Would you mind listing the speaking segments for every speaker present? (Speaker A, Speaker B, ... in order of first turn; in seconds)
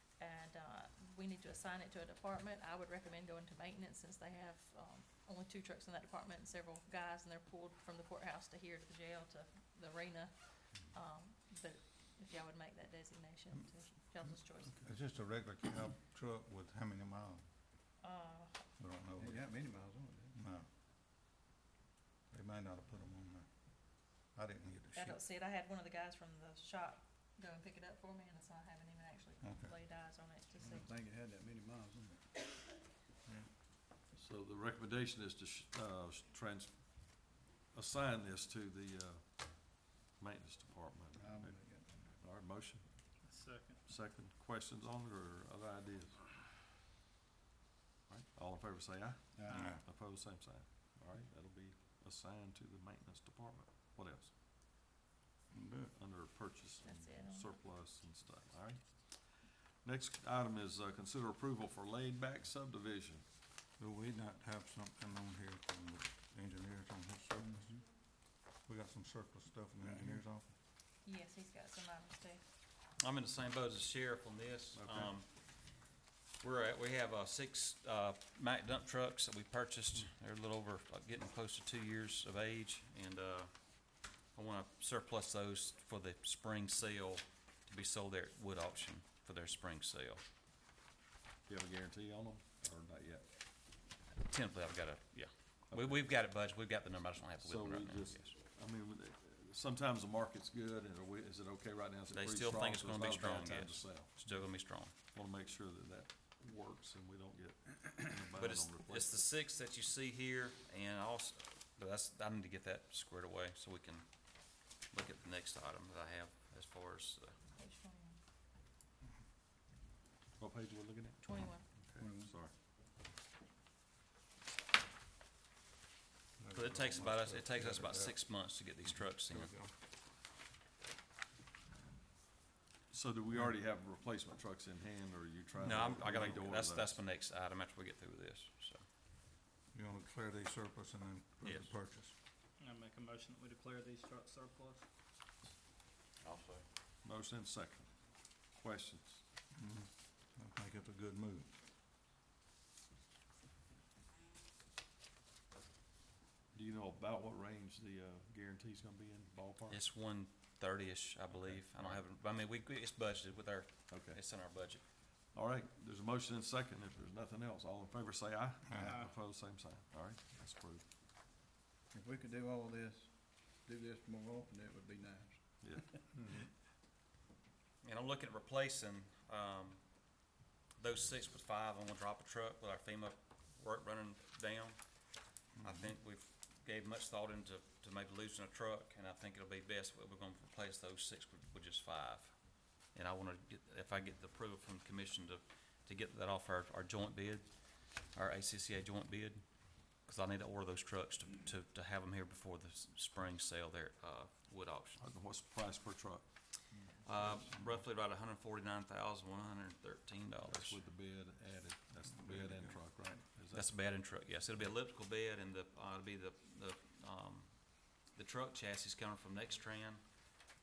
Speaker A: 0.2-14.8, 18.0-18.7, 24.9-30.9, 56.8-57.6, 71.0-72.4, 117.6-118.2, 121.2-121.7
Speaker B: 14.8-17.4, 18.8-19.5, 20.4-20.7, 22.3-25.2, 29.4-29.7, 49.5-49.8, 55.5-55.9, 63.8-67.8, 68.6-70.5, 126.4-129.7, 139.7-142.2, 149.5-151.5, 168.7-169.0, 176.1-176.5, 185.6-185.9, 207.2-207.8, 212.1-213.2
Speaker C: 19.2-20.4, 30.6-32.2, 41.2-42.2, 49.4-49.8, 122.0-122.3, 171.9-175.8
Speaker D: 34.1-43.1, 43.9-46.2, 48.1-54.3, 55.9-63.2, 74.8-75.1, 91.5-93.6, 95.7-96.1, 97.4-104.4, 105.0-109.2, 120.4-122.5, 132.9-137.0, 147.0-149.2, 156.5-159.8, 161.3-162.0, 163.9-164.2, 164.9-170.9, 175.6-175.9, 205.0-206.7, 210.4-213.8
Speaker E: 43.2-43.8, 142.6-144.9, 168.7-169.1
Speaker F: 73.0-90.2, 94.1-98.3, 102.1-105.0, 108.3-117.4, 126.5-129.5, 135.6-138.8, 141.4-141.7, 146.2-146.7, 159.7-164.9, 177.8-205.0, 207.0-210.8, 213.5-220.3